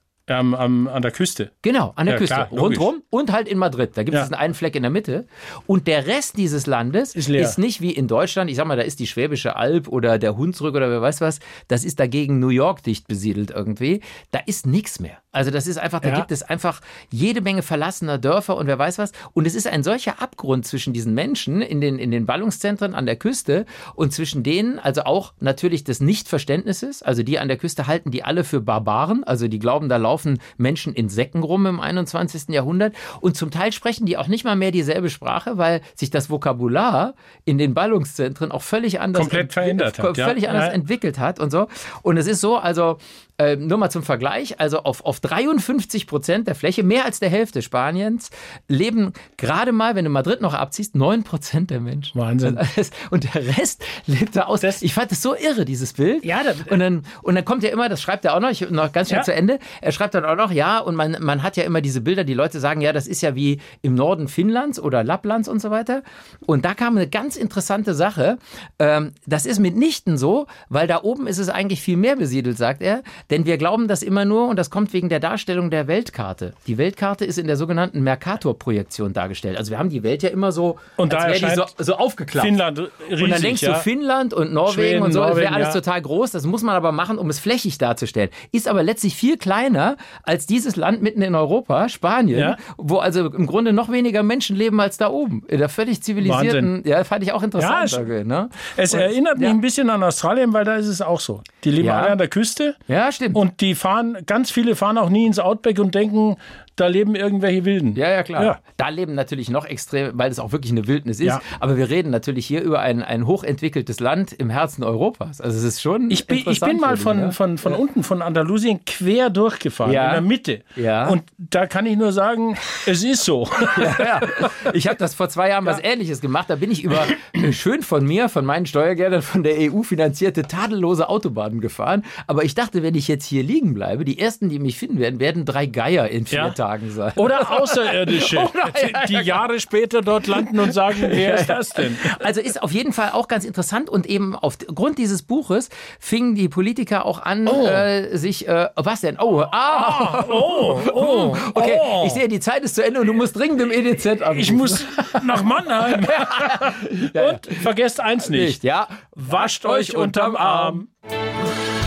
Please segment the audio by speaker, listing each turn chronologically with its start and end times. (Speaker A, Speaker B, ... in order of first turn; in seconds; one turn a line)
Speaker A: 0.3-1.5
Speaker B: 1.6-82.6
Speaker A: 2.1-2.9
Speaker A: 7.1-7.6
Speaker A: 16.0-16.3
Speaker A: 39.1-40.8
Speaker A: 52.1-52.6
Speaker A: 56.2-56.8
Speaker A: 81.0-81.7
Speaker A: 82.4-83.9
Speaker B: 83.2-99.6
Speaker A: 84.7-85.8
Speaker A: 92.3-92.6
Speaker A: 96.2-96.7
Speaker A: 97.6-98.0
Speaker A: 98.6-102.8
Speaker B: 101.8-102.2
Speaker B: 102.9-103.4
Speaker A: 103.3-108.6
Speaker B: 107.9-117.8
Speaker A: 116.1-124.7
Speaker B: 119.8-121.2
Speaker B: 123.7-139.4
Speaker A: 137.2-142.2
Speaker B: 140.3-160.9
Speaker A: 147.4-147.9
Speaker A: 149.7-152.2
Speaker A: 154.3-158.6
Speaker A: 159.2-160.8